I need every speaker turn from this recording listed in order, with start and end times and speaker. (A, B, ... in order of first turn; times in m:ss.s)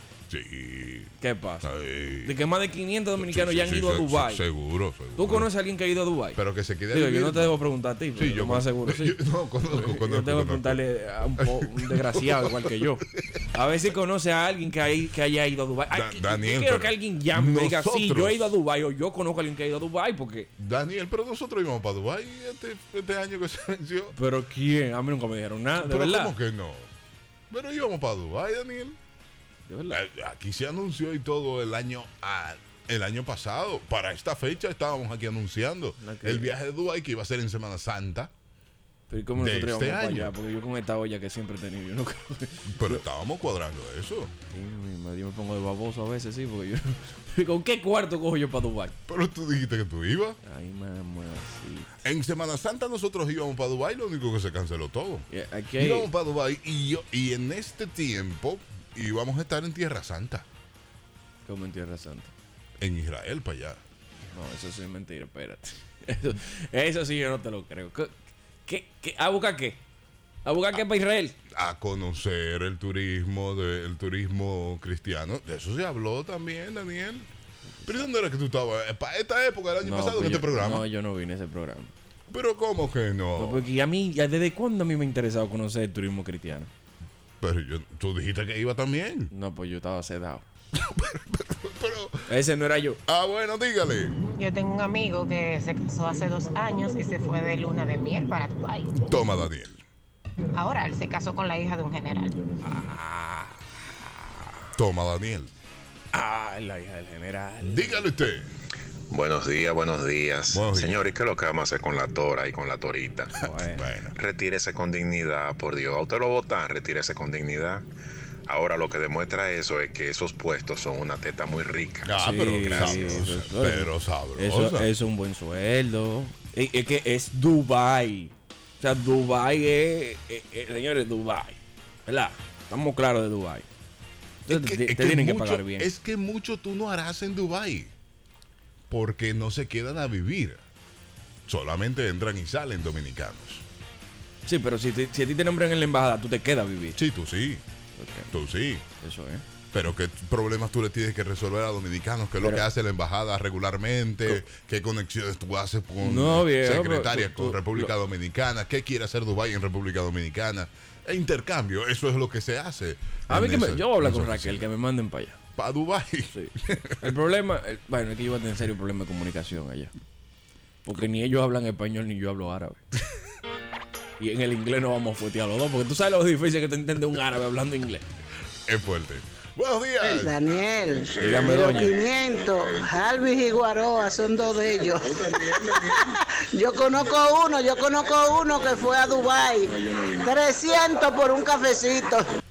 0:00.3-0:01.1 A
0:01.2-0:01.7 B
0:01.6-0:02.3 A
0:02.2-0:04.5 B
0:03.2-0:05.5 A
0:05.1-0:20.5 B
0:06.4-0:07.6 A
0:08.2-0:10.8 A
0:11.4-0:13.4 A
0:15.9-0:18.6 A
0:20.6-0:24.2 A
0:24.1-0:26.4 B
0:25.8-0:26.9 A
0:27.5-0:29.0 A
0:29.7-0:30.0 B
0:29.9-0:38.3 A
0:36.0-0:36.6 B
0:39.1-0:43.0 B
0:39.3-0:40.3 A
0:42.7-0:44.3 A
0:44.5-0:48.9 B
0:49.1-0:50.4 A
0:50.4-0:51.9 B
0:52.0-1:00.4 A
0:55.3-0:56.1 B
1:01.4-1:02.3 B
1:02.8-1:03.8 A
1:04.3-1:08.1 B
1:08.6-1:09.8 B
1:10.4-1:11.4 B
1:11.5-1:17.3 A
1:17.8-1:18.1 B
1:17.8-1:20.9 A
1:19.8-1:21.9 B
1:22.3-1:23.6 A
1:23.4-1:26.7 B
1:27.4-1:29.3 A
1:29.3-1:30.4 B
1:30.8-1:32.2 A
1:32.3-1:33.0 B
1:33.1-1:34.2 A
1:34.4-1:38.9 C
1:39.0-1:39.8 A
1:40.5-1:42.3 C
1:42.6-1:44.6 B
1:44.7-1:45.5 A
1:46.1-1:48.1 B
1:47.6-1:48.5 A
1:49.1-1:53.4 D
1:50.5-1:51.1 A
1:53.4-1:53.8 B
1:53.7-1:54.1 A
1:54.1-1:57.8 D
1:58.5-2:03.3 D
2:02.0-2:04.9 A
2:02.1-2:13.6 B
2:14.4-2:15.9 B
2:14.5-2:17.9 A
2:18.9-2:20.6 A
2:21.5-2:23.6 A
2:24.4-2:27.0 B
2:27.0-2:27.6 A
2:28.0-2:28.3 B
2:28.3-2:28.8 A
2:29.0-2:29.4 B
2:29.7-2:44.7 A
2:36.0-2:37.9 B
2:43.3-2:45.4 B
2:45.6-2:47.1 A
2:46.3-2:49.9 B
2:50.8-2:52.8 B
2:54.2-2:58.0 B
2:58.7-3:00.4 A
3:00.0-3:12.2 E
3:01.1-3:01.7 A
3:01.2-3:02.0 B